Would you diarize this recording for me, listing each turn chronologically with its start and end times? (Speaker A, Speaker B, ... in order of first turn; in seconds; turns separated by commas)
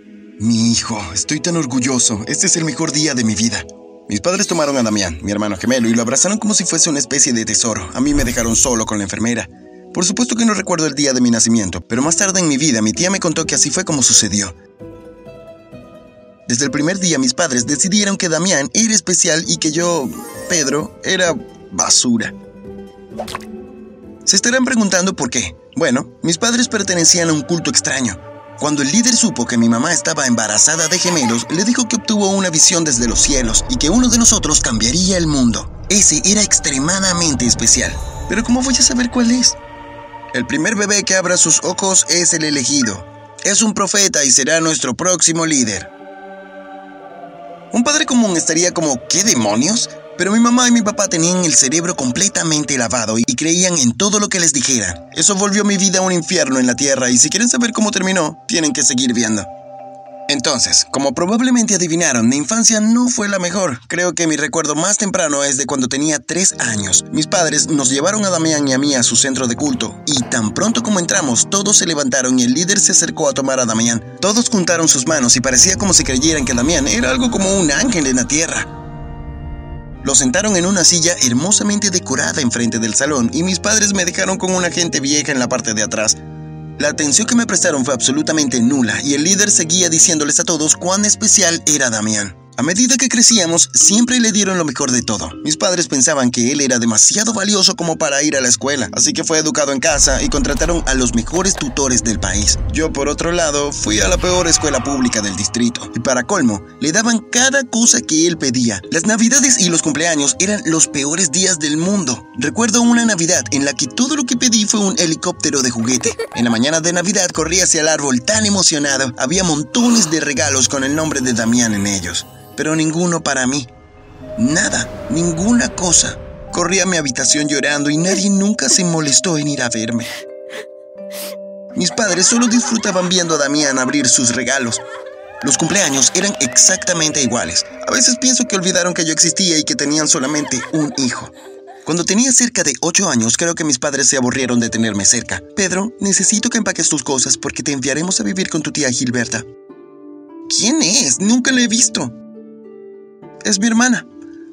Speaker A: 0.4-14.5, Speaker A: 16.4-22.3, Speaker A: 24.2-39.6, Speaker A: 40.3-45.9, Speaker A: 47.7-59.5, Speaker A: 60.3-78.7, Speaker A: 80.0-86.2, Speaker A: 86.8-123.7, Speaker A: 124.3-130.1, Speaker A: 131.8-134.8, Speaker A: 135.4-141.3, Speaker A: 141.8-149.5, Speaker A: 150.5-152.1, Speaker A: 153.4-154.1